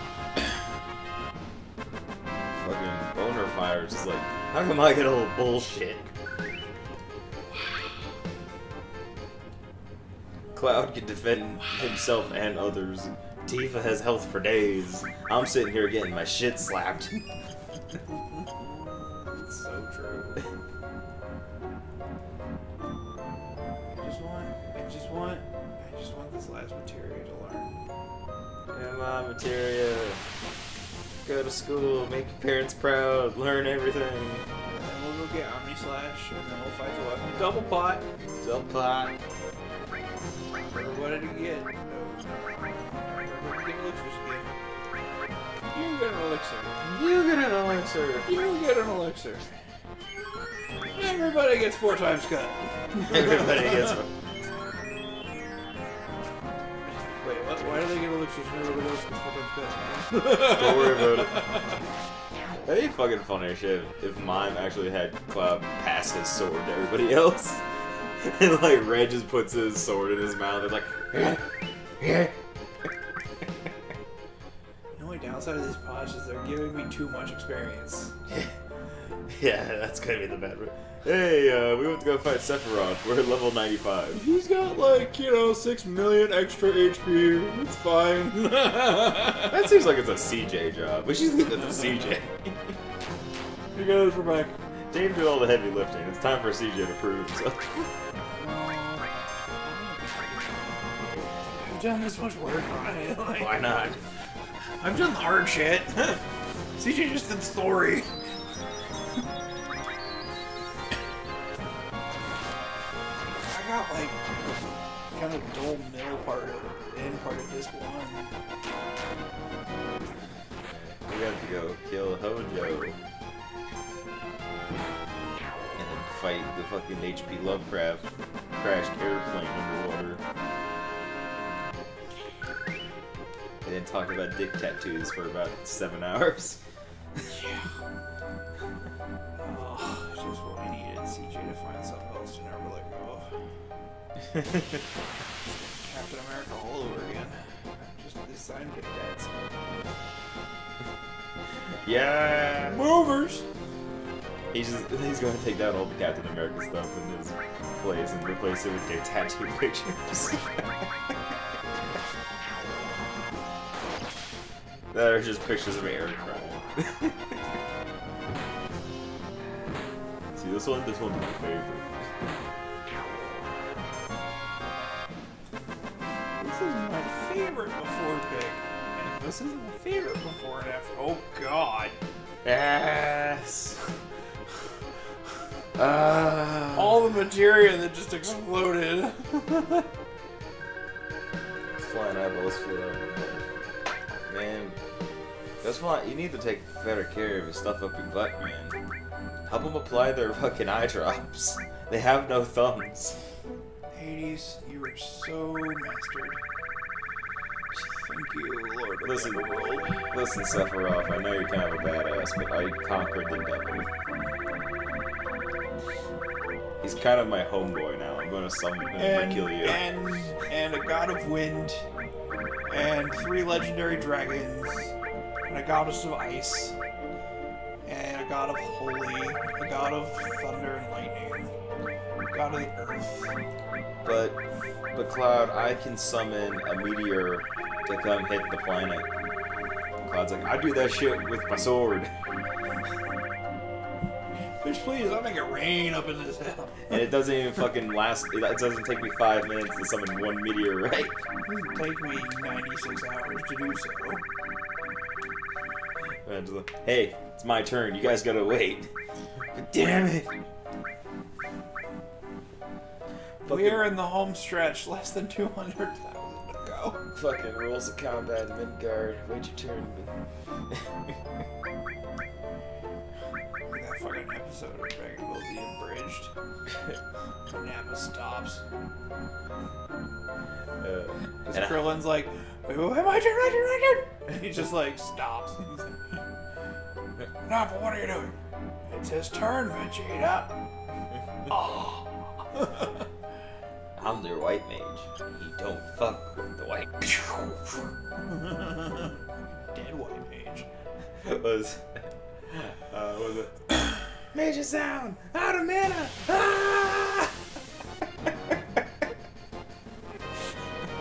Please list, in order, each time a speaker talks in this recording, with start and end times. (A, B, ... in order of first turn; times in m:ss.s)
0:02.5-0:06.1 A
0:10.5-0:17.2 A
0:18.5-0:20.4 B
0:23.9-0:27.8 B
0:28.7-0:30.2 A
0:31.2-0:34.4 A
0:34.7-0:38.0 B
0:38.4-0:39.2 A
0:40.5-0:44.5 B
0:45.7-0:46.9 B
0:46.8-0:48.3 A
0:48.2-0:49.5 B
0:51.0-0:53.9 B
0:53.0-0:54.1 A
0:57.2-1:01.5 B
1:00.3-1:01.5 A
1:02.6-1:07.6 A
1:08.2-1:11.4 A
1:12.0-1:12.3 A
1:15.0-1:18.1 B
1:19.3-1:24.2 A
1:24.1-1:29.5 B
1:29.5-1:32.8 A
1:33.7-1:34.5 B
1:34.9-1:37.9 A
1:38.4-1:39.0 B
1:39.6-1:40.8 B
1:41.0-1:41.6 A
1:41.5-1:44.0 B
1:43.4-1:44.0 A
1:44.8-1:46.2 B
1:46.8-1:48.1 B
1:53.4-1:58.3 B
2:00.6-2:03.0 A
2:05.8-2:10.2 A
2:13.6-2:16.6 A
2:17.3-2:17.7 B
2:19.4-2:23.3 B
2:24.5-2:24.8 A
2:25.4-2:29.3 B
2:31.8-2:32.8 A
2:32.7-2:33.4 B
2:34.5-2:40.9 A
2:44.9-2:47.4 A
2:50.3-2:52.1 A
2:56.4-3:02.0 B
3:02.4-3:03.8 A
3:05.8-3:07.0 A
3:06.8-3:09.9 B
3:11.8-3:13.4 A
3:14.2-3:14.8 A
3:15.6-3:18.8 A
3:19.4-3:23.2 A
3:23.9-3:26.4 B
3:27.7-3:30.0 B
3:29.0-3:33.9 A
3:36.8-3:39.8 A
3:38.9-3:41.8 B
3:42.7-3:44.9 B
3:45.4-3:46.7 B
3:47.8-3:51.5 B
3:52.3-3:53.4 B
3:54.0-3:54.4 A
3:54.9-3:59.1 A
4:00.0-4:02.1 A
4:04.6-4:06.9 B
4:06.9-4:11.1 A
4:11.5-4:14.2 B
4:16.2-4:18.9 A
4:19.5-4:20.3 A
4:23.4-4:27.0 B
4:23.4-4:23.8 A
4:27.1-4:30.1 A
4:33.7-4:36.3 B
4:37.5-4:38.6 B
4:40.8-4:41.7 A
4:41.4-4:46.2 B
4:47.4-4:50.6 B
4:51.5-4:53.0 B
4:54.0-4:56.9 A
4:57.0-5:00.6 B
5:01.2-5:03.6 A
5:04.3-5:06.6 A
5:06.6-5:06.8 B